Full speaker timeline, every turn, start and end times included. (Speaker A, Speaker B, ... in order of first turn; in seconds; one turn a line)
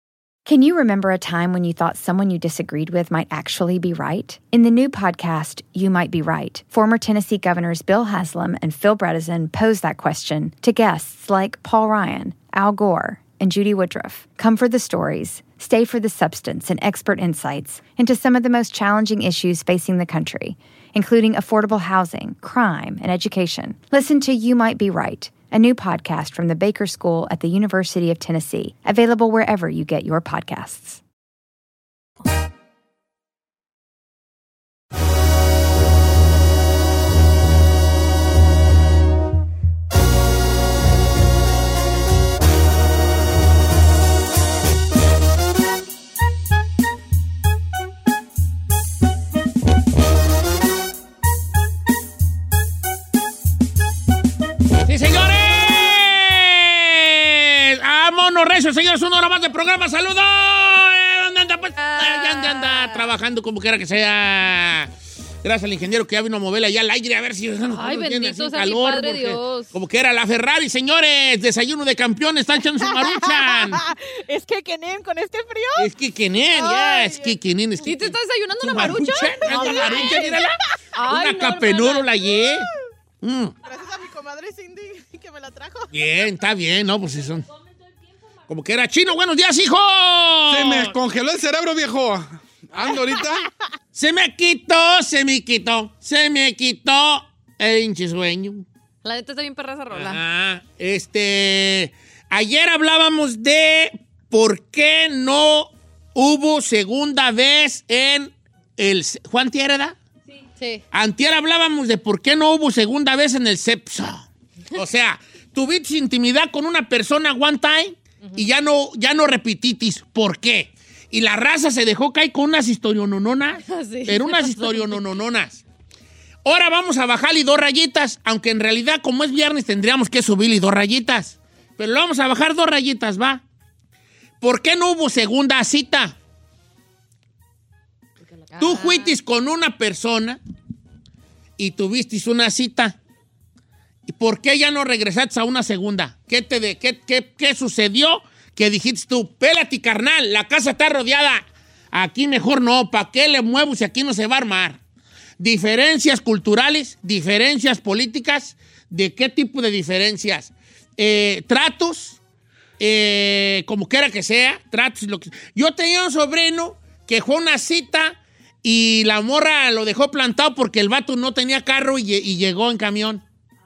Speaker A: 0.5-31.0
Speaker B: 54.8-64.9
Speaker C: 61.8-63.1
Speaker B: 65.4-73.8
Speaker C: 67.7-69.7
Speaker D: 73.0-75.9
Speaker B: 75.8-82.7
Speaker D: 76.5-77.3
Speaker C: 77.8-80.4
Speaker D: 79.5-80.4
Speaker C: 80.9-82.2
Speaker B: 83.2-83.5
Speaker D: 83.6-85.9
Speaker B: 85.9-87.5
Speaker B: 88.5-90.9
Speaker E: 90.5-93.5
Speaker B: 93.9-98.6
Speaker C: 99.0-100.2
Speaker B: 99.9-110.0
Speaker C: 110.5-110.8
Speaker B: 110.9-125.6
Speaker C: 123.6-125.0
Speaker B: 126.4-133.4
Speaker B: 134.4-136.1
Speaker C: 138.5-139.2
Speaker B: 138.6-140.4
Speaker B: 141.6-142.9
Speaker B: 144.1-154.8
Speaker B: 155.4-162.2
Speaker B: 162.8-173.2